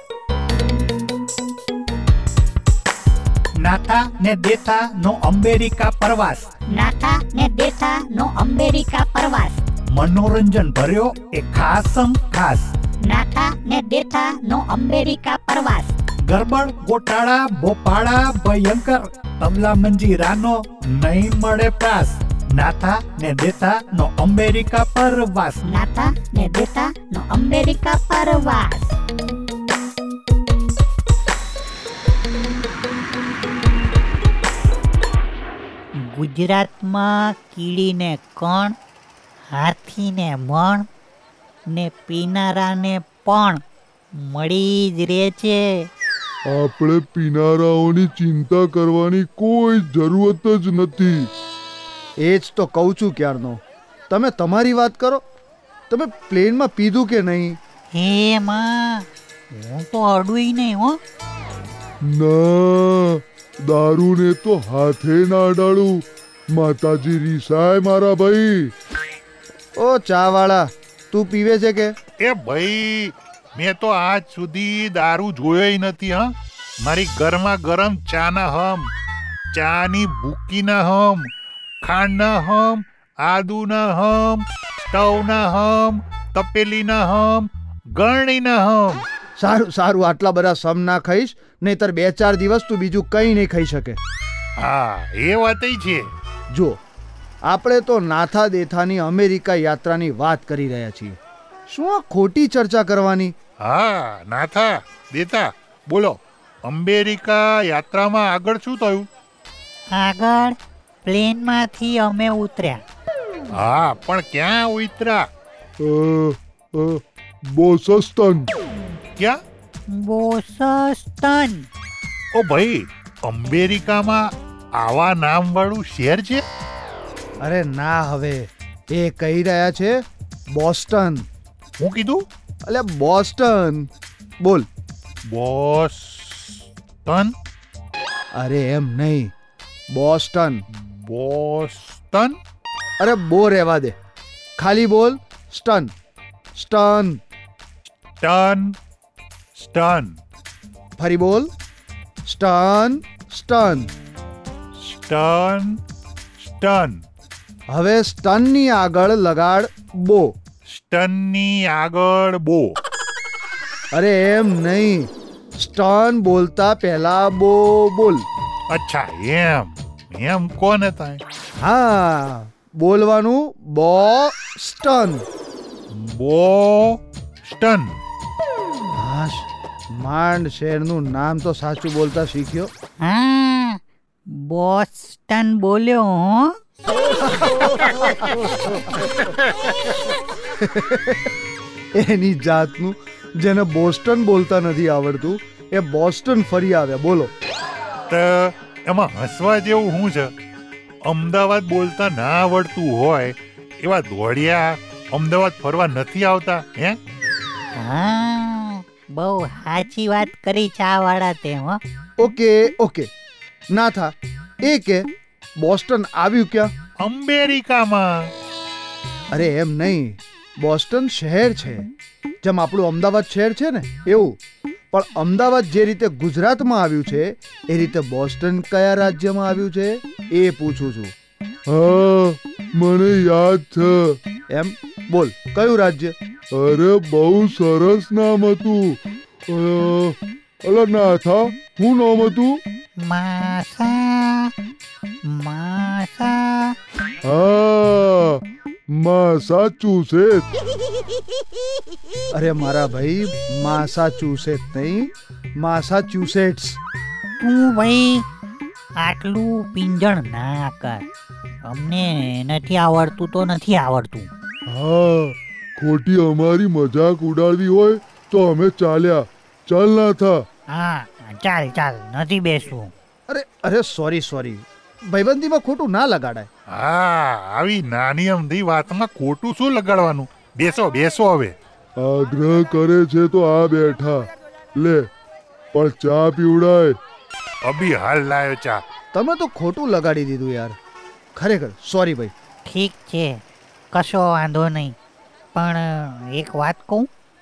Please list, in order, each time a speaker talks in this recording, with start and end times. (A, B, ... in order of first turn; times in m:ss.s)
0:03.6-0:06.6 A
0:06.6-0:09.6 B
0:09.9-0:12.8 A
0:13.0-0:15.9 B
0:16.2-0:25.7 A
0:25.6-0:29.0 B
0:36.0-0:38.8 C
0:39.5-0:40.9 C
0:41.7-0:43.6 C
0:44.2-0:45.8 C
0:46.5-0:51.3 D
0:52.2-0:55.2 E
0:55.9-0:57.6 E
0:57.9-1:01.0 C
1:02.0-1:06.0 D
1:06.5-1:08.7 D
1:09.8-1:11.9 E
1:12.2-1:16.3 F
1:16.8-1:18.9 F
1:19.5-1:21.3 F
1:21.8-1:29.0 F
1:29.4-1:34.0 E
1:34.6-1:36.1 F
1:36.5-1:36.8 E
1:37.4-1:43.4 E
1:43.6-1:49.1 F
1:49.9-1:52.8 C
1:53.5-1:55.3 F
1:55.8-1:58.5 D
1:59.9-2:01.7 C
2:02.4-2:04.3 F
2:04.8-2:06.4 F
2:07.4-2:10.0 E
2:10.5-2:11.2 E
2:11.8-2:12.2 F
2:12.6-2:13.9 E
2:14.4-2:14.7 E
2:15.3-2:17.3 F
2:18.3-2:19.3 E
2:19.9-2:20.6 E
2:20.7-2:22.4 F
2:23.0-2:24.0 E
2:24.6-2:25.9 E
2:26.6-2:27.2 E
2:28.2-2:28.7 F
2:29.6-2:30.2 F
2:31.0-2:31.5 E
2:32.3-2:33.9 E
2:34.8-2:35.8 F
2:36.4-2:37.0 F
2:37.7-2:40.3 E
2:40.7-2:42.8 F
2:43.9-2:48.2 E
2:48.7-2:51.2 F
2:51.6-2:55.2 E
2:55.9-2:58.0 F
2:59.0-3:02.7 E
3:03.0-3:03.8 C
3:04.3-3:06.6 C
3:10.6-3:11.2 E
3:12.0-3:17.3 E
3:18.1-3:20.3 F
3:21.1-3:27.0 F
3:27.8-3:31.8 C
3:32.2-3:33.1 E
3:33.7-3:36.7 E
3:37.0-3:38.3 F
3:39.3-3:41.9 E
3:42.4-3:44.4 E
3:44.9-3:51.1 E
3:51.7-3:54.2 D
3:54.5-3:56.1 E
3:56.6-4:02.6 D
4:03.0-4:04.5 C
4:05.3-4:06.7 C
4:07.2-4:08.4 D
4:09.0-4:10.5 D
4:12.4-4:16.8 E
4:17.4-4:18.2 C
4:19.0-4:21.1 C
4:21.6-4:24.3 C
4:24.7-4:30.4 D
4:30.7-4:32.9 C
4:33.3-4:36.5 E
4:36.7-4:41.6 F
4:42.0-4:45.1 D
4:45.7-4:47.0 D
4:47.6-4:48.8 F
4:49.1-4:50.8 E
4:51.4-4:52.3 E
4:52.7-4:53.4 C
4:53.9-4:55.0 C
4:55.6-4:57.1 C